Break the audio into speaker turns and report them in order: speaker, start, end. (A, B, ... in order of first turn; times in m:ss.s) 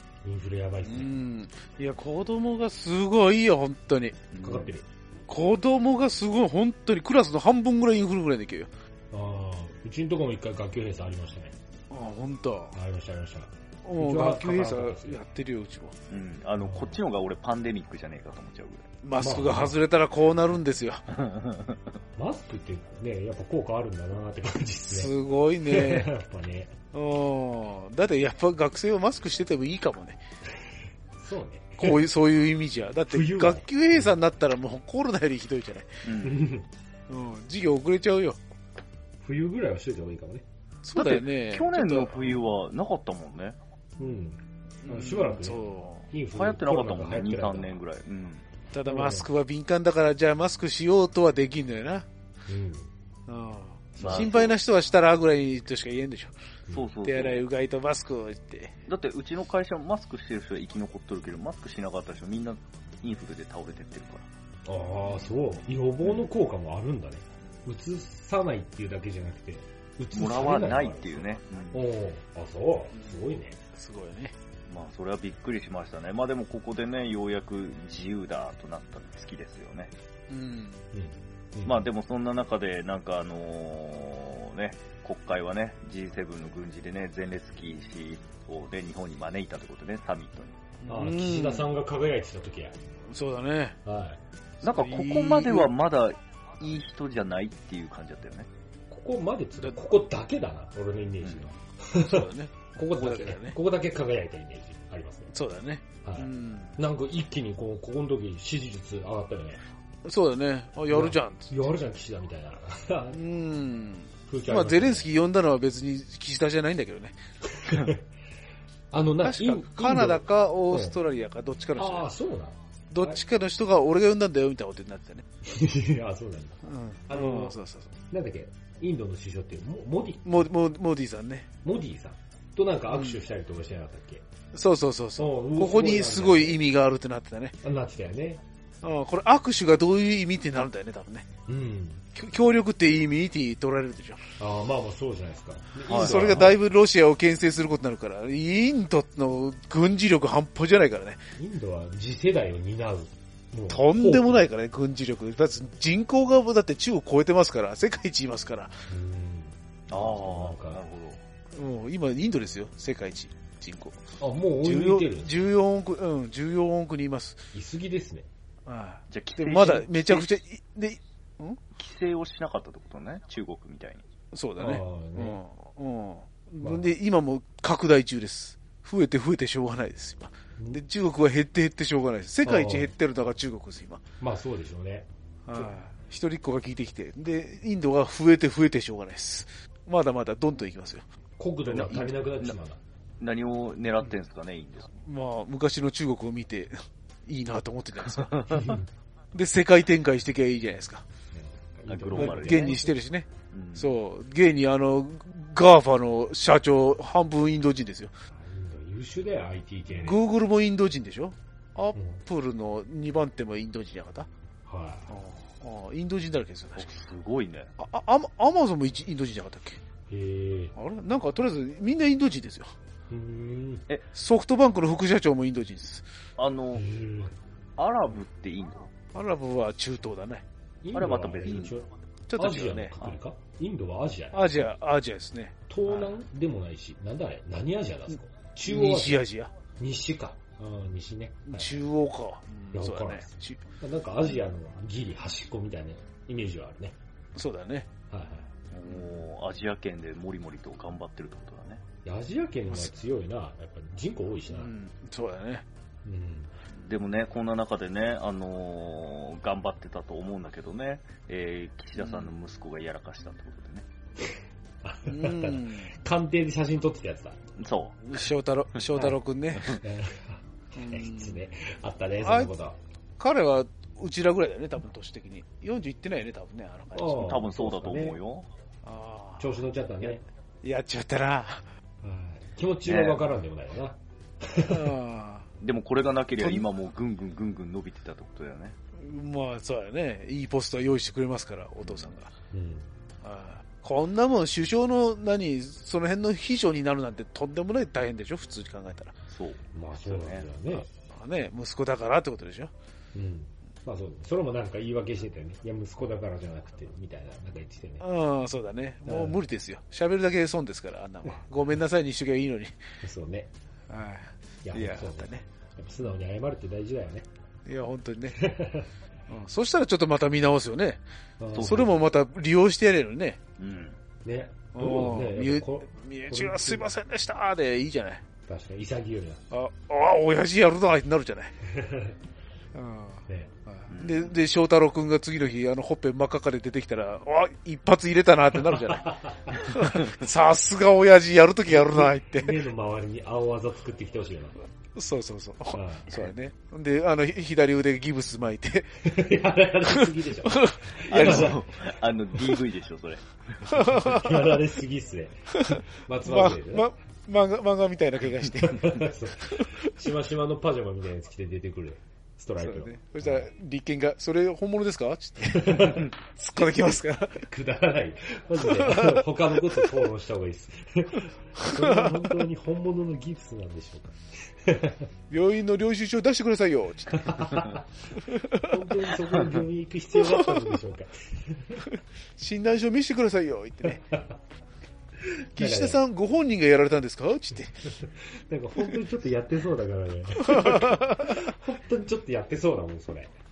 0:00.2-0:01.1 A
0:00.8-0:04.2 B
0:04.3-0:04.7 C
0:04.4-0:04.8 A
0:05.3-0:08.7 B
0:09.1-0:11.5 A
0:11.9-0:12.7 B
0:12.7-0:15.2 A
0:13.8-0:16.0 B
0:16.1-0:18.9 C
0:16.6-0:17.0 A
0:19.0-0:21.1 B
0:19.2-0:19.8 A
0:21.1-0:21.8 C
0:22.2-0:26.7 A
0:24.9-0:26.1 B
0:26.9-0:30.2 B
0:31.2-0:32.0 A
0:31.8-0:36.0 B
0:33.1-0:34.1 A
0:36.0-0:36.4 C
0:36.2-0:36.7 A
0:37.1-0:38.4 B
0:39.2-0:40.4 A
0:40.8-0:42.4 B
0:41.0-0:43.6 C
0:44.0-0:47.8 A
0:44.8-0:46.1 B
0:46.3-0:48.4 C
0:48.7-0:52.1 B
0:48.9-0:49.3 A
0:52.5-0:52.9 A
0:53.3-0:56.3 B
0:54.0-0:54.3 A
0:54.0-0:54.6 C
0:56.7-0:57.4 C
0:57.0-0:58.8 B
0:58.9-1:04.3 C
1:04.6-1:13.6 A
1:10.1-1:11.8 C
1:12.9-1:14.3 B
1:14.7-1:19.9 C
1:20.3-1:20.9 B
1:20.9-1:21.9 A
1:21.6-1:30.6 C
1:30.8-1:31.7 B
1:30.9-1:32.8 A
1:33.1-1:33.8 B
1:33.8-1:34.2 A
1:34.6-1:35.7 B
1:34.6-1:38.5 C
1:38.9-1:45.3 A
1:41.2-1:41.5 C
1:41.9-1:43.6 B
1:45.3-1:46.8 B
1:46.0-1:49.6 A
1:50.0-1:51.6 B
1:50.9-1:53.2 A
1:53.1-1:57.9 B
1:54.3-1:55.1 A
1:57.5-1:58.0 A
1:58.9-2:01.0 A
1:59.2-2:02.1 B
2:01.8-2:03.2 A
2:02.9-2:05.2 B
2:05.4-2:07.5 A
2:06.6-2:07.9 B
2:08.1-2:10.5 A
2:10.2-2:11.5 B
2:11.6-2:14.2 A
2:12.9-2:13.2 B
2:14.5-2:17.5 B
2:15.2-2:16.7 A
2:17.6-2:18.4 A
2:18.8-2:21.2 B
2:21.5-2:22.0 A
2:22.1-2:24.3 B
2:24.4-2:26.6 A
2:25.9-2:26.4 C
2:25.9-2:31.2 B
2:31.4-2:34.5 A
2:33.7-2:38.8 B
2:38.9-2:40.8 A
2:39.9-2:41.2 C
2:41.5-2:44.0 B
2:44.2-2:45.5 A
2:44.6-2:47.5 B
2:47.5-2:48.3 A
2:48.6-2:51.6 B
2:49.1-2:50.4 C
2:51.8-2:54.0 C
2:54.3-3:04.0 B
2:54.6-2:55.4 A
2:56.6-2:56.9 A
3:02.4-3:02.9 A
3:04.2-3:05.7 A
3:05.4-3:11.0 B
3:11.4-3:12.8 A
3:11.7-3:12.6 C
3:11.7-3:12.0 B
3:13.2-3:14.9 C
3:15.0-3:18.4 B
3:18.1-3:18.8 C
3:18.5-3:18.9 A
3:19.3-3:21.0 B
3:21.3-3:22.9 A
3:21.9-3:22.8 C
3:22.1-3:28.1 B
3:23.5-3:23.9 C
3:28.3-3:30.2 A
3:29.9-3:34.3 B
3:31.9-3:32.2 A
3:34.6-3:35.1 A
3:35.1-3:36.9 B
3:36.8-3:37.7 C
3:37.8-3:39.8 B
3:40.1-3:40.7 A
3:40.8-3:42.7 B
3:43.1-3:43.8 A
3:44.1-3:46.0 B
3:46.4-3:46.8 C
3:46.7-3:47.3 A
3:47.8-3:48.9 C
3:49.1-3:50.4 B
3:50.8-3:54.7 A
3:50.9-3:51.8 C
3:52.3-3:53.0 B
3:54.3-3:56.1 B
3:55.7-3:59.2 A
3:58.6-3:59.5 B
3:59.8-4:01.7 A
4:01.4-4:03.6 B
4:02.7-4:07.0 A
4:07.3-4:07.9 B
4:08.1-4:08.5 A
4:08.7-4:11.8 C
4:12.0-4:14.7 A
4:14.5-4:15.6 B
4:16.0-4:16.5 A
4:16.8-4:23.8 C
4:22.0-4:22.3 B
4:24.8-4:27.4 A
4:25.0-4:25.9 B
4:27.6-4:28.2 C
4:28.0-4:29.8 B
4:28.9-4:32.8 A
4:30.8-4:31.4 B
4:32.2-4:32.5 B
4:33.2-4:37.4 B
4:36.9-4:38.2 A
4:37.2-4:38.5 C
4:38.8-4:41.7 B
4:39.4-4:40.2 A
4:42.0-4:44.9 A
4:42.8-4:43.2 C
4:44.6-4:45.5 B
4:45.6-4:48.8 C
4:46.4-4:46.6 B
4:49.0-4:52.3 B
4:51.8-4:52.1 C
4:52.5-4:52.9 A
4:53.2-4:59.1 B
4:59.3-5:00.5 C
4:59.7-5:00.9 A
5:00.7-5:02.7 B
5:03.1-5:08.0 A
5:08.0-5:12.8 B
5:09.0-5:09.4 A
5:13.0-5:13.5 A
5:13.9-5:15.4 B
5:14.6-5:17.3 A
5:17.6-5:18.4 B
5:18.4-5:18.9 A
5:19.3-5:21.0 B
5:21.4-5:21.9 A
5:21.5-5:21.9 C
5:21.6-5:23.4 B
5:23.6-5:24.0 C
5:24.2-5:26.9 A
5:24.7-5:28.2 B
5:28.4-5:29.4 A
5:29.5-5:31.5 B
5:31.6-5:32.2 A
5:32.7-5:42.6 B
5:33.9-5:34.4 C
5:38.7-5:39.6 A
5:41.8-5:44.5 A
5:45.0-5:49.1 B
5:45.7-5:46.2 A
5:49.0-5:51.8 A
5:49.8-5:51.6 B
5:51.0-5:53.6 C
5:53.6-5:54.5 B
5:53.7-5:56.9 A
5:55.5-5:59.9 B
5:58.7-6:03.5 A
6:02.6-6:07.5 B
6:05.4-6:06.1 A
6:07.4-6:15.1 A
6:08.6-6:09.2 B
6:11.6-6:12.3 B
6:15.3-6:17.7 B
6:17.1-6:17.8 A
6:18.2-6:18.7 B
6:18.5-6:21.8 A
6:20.2-6:20.5 B
6:21.8-6:24.1 B
6:25.2-6:26.0 A
6:25.6-6:28.0 B
6:28.0-6:33.3 A
6:30.4-6:31.4 B